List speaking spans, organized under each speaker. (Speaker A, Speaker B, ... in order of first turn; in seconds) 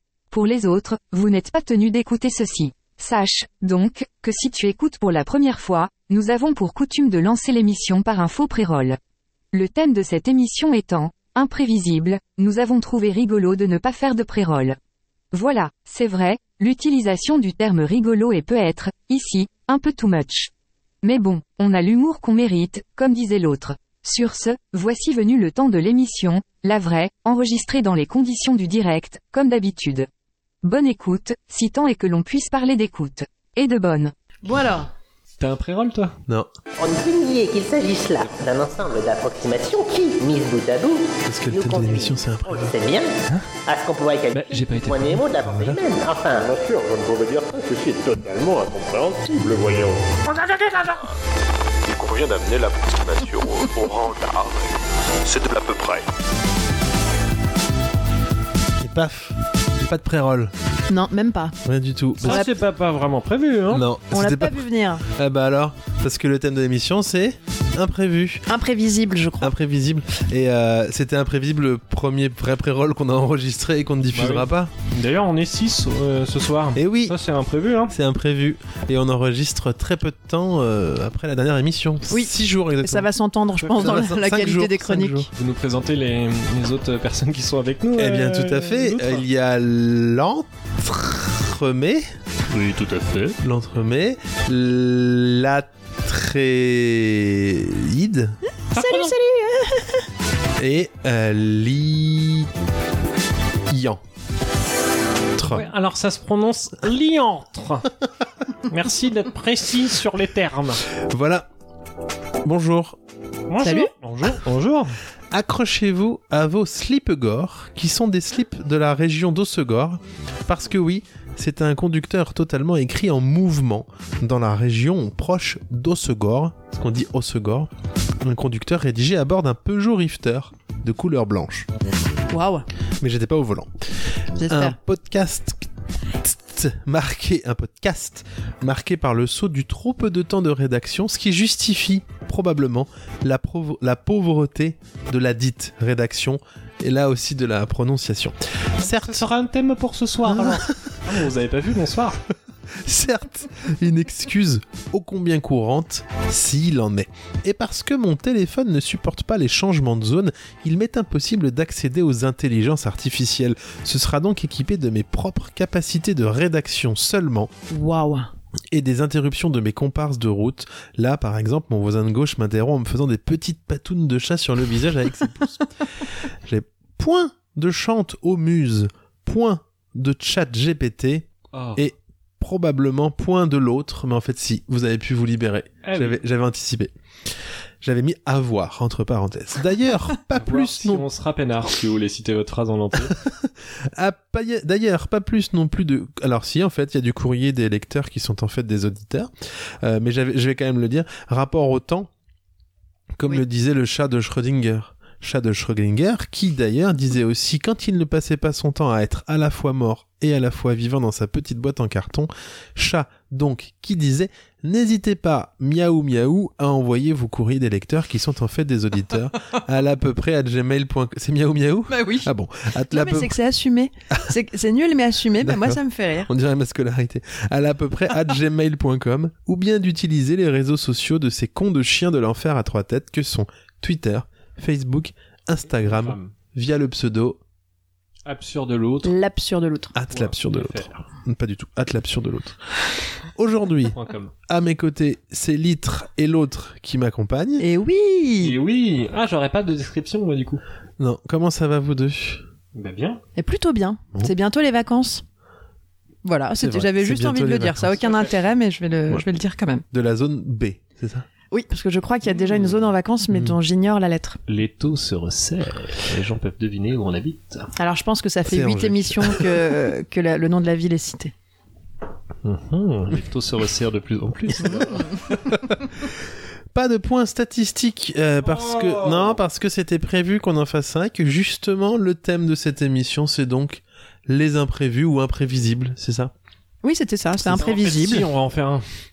Speaker A: 0.3-9.0, 9.5-14.8, 15.3-20.5, 21.0-30.1, 30.6-34.1
Speaker B: 34.4-34.9, 60.9-61.5, 62.2-62.5, 64.1-65.0, 68.5-69.5, 82.1-85.3, 98.7-100.0, 113.6-113.9, 132.3-132.7, 134.4-134.8, 167.7-168.3, 221.9-222.3, 222.9-226.3, 239.0-239.9, 247.6-248.5, 253.3-255.2, 256.2-259.8, 261.5-264.4, 267.8-271.3, 286.8-288.2
Speaker C: 35.4-36.2, 44.3-45.2, 62.2-63.9, 74.1-78.0, 83.6-83.9, 85.3-89.2, 92.5-93.3, 98.7-99.1, 105.5-107.9, 108.7-110.8, 113.5-115.0, 149.0-152.2, 181.5-181.8, 185.8-186.2, 190.3-193.1, 235.6-236.3, 238.2-239.2, 240.1-241.0, 243.9-244.3, 248.4-250.6, 252.7-253.2, 262.2-262.9, 264.5-267.7, 272.4-275.4, 278.4-279.4, 287.4-288.9
Speaker D: 36.8-43.1, 43.6-46.5
Speaker E: 41.2-42.7, 45.5-45.8, 50.3-51.0, 51.8-54.7, 55.2-56.1, 58.8-60.5, 61.6-62.4, 63.7-68.4, 69.4-74.7, 76.7-77.2, 77.9-83.1, 83.7-85.3, 88.0-92.1, 93.4-98.4, 100.6-102.5, 103.7-104.0, 105.3-105.7, 110.9-111.5, 112.4-113.0, 115.3-127.7, 128.2-131.7, 133.0-133.7, 134.5-135.7, 136.2-149.2, 150.2-150.7, 152.8-167.5, 168.7-175.6, 176.3-186.9, 187.8-191.1, 193.1-199.3, 199.8-202.1, 203.2-223.3, 225.4-237.4, 239.9-242.6, 243.3-244.0, 244.5-247.7, 251.0-252.4, 256.5-258.0, 259.9-261.2, 263.3-263.6, 268.4-269.6, 276.7-286.3
Speaker F: 46.3-50.2